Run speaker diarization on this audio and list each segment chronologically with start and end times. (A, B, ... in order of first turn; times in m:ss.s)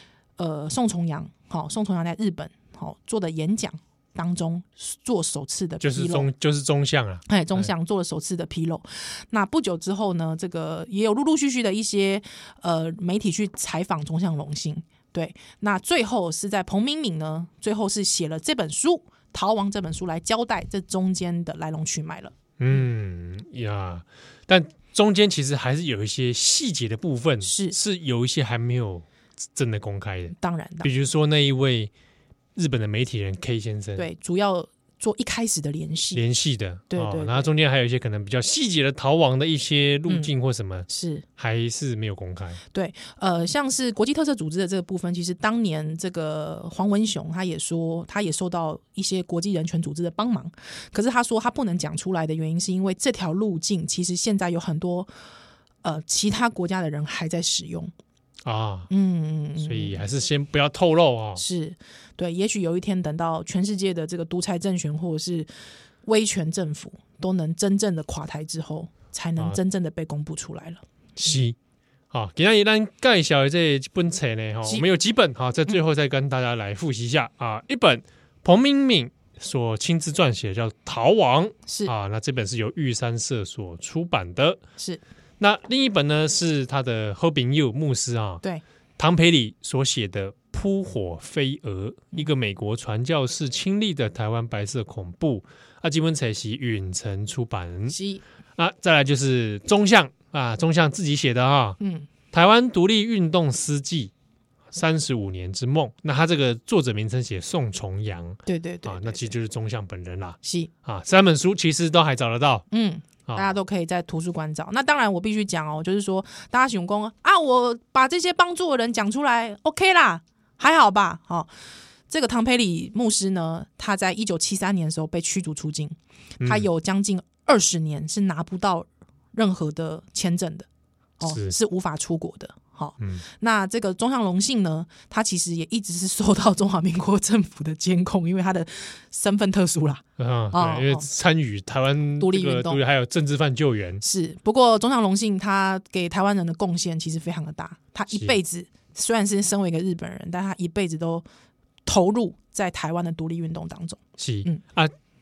0:00.4-0:06.3 A
0:05.8-0:07.7 B
0:07.3-0:22.3 A
0:22.6-0:31.9 B
0:27.4-0:27.8 A
0:30.4-0:30.9 A
0:32.6-0:34.0 B
0:34.0-0:36.2 A
0:36.2-0:40.9 B
0:36.9-0:37.5 A
0:40.9-0:41.2 A
0:41.4-0:42.6 B
0:42.7-0:55.1 A
0:55.8-0:57.9 A
0:58.4-0:58.9 B
0:58.9-1:00.0 A
0:59.6-1:01.4 B
1:01.4-1:05.5 A
1:06.1-1:11.4 A
1:11.2-1:11.6 B
1:12.1-1:24.6 B
1:21.7-1:21.9 A
1:25.4-1:28.4 B
1:29.0-1:38.0 B
1:37.9-1:38.2 A
1:38.6-1:41.8 B
1:41.8-1:42.1 A
1:42.3-1:44.1 B
1:44.7-1:52.6 B
1:48.5-1:49.3 A
1:50.4-1:50.7 A
1:52.7-2:01.5 A
1:53.3-1:53.6 B
2:02.1-2:10.7 A
2:06.4-2:06.7 B
2:11.2-2:21.1 A
2:11.2-2:11.5 B
2:20.2-2:24.0 B
2:22.2-2:22.8 A
2:24.0-2:31.2 A
2:28.1-2:28.4 B
2:31.9-2:34.6 A
2:34.2-2:34.9 B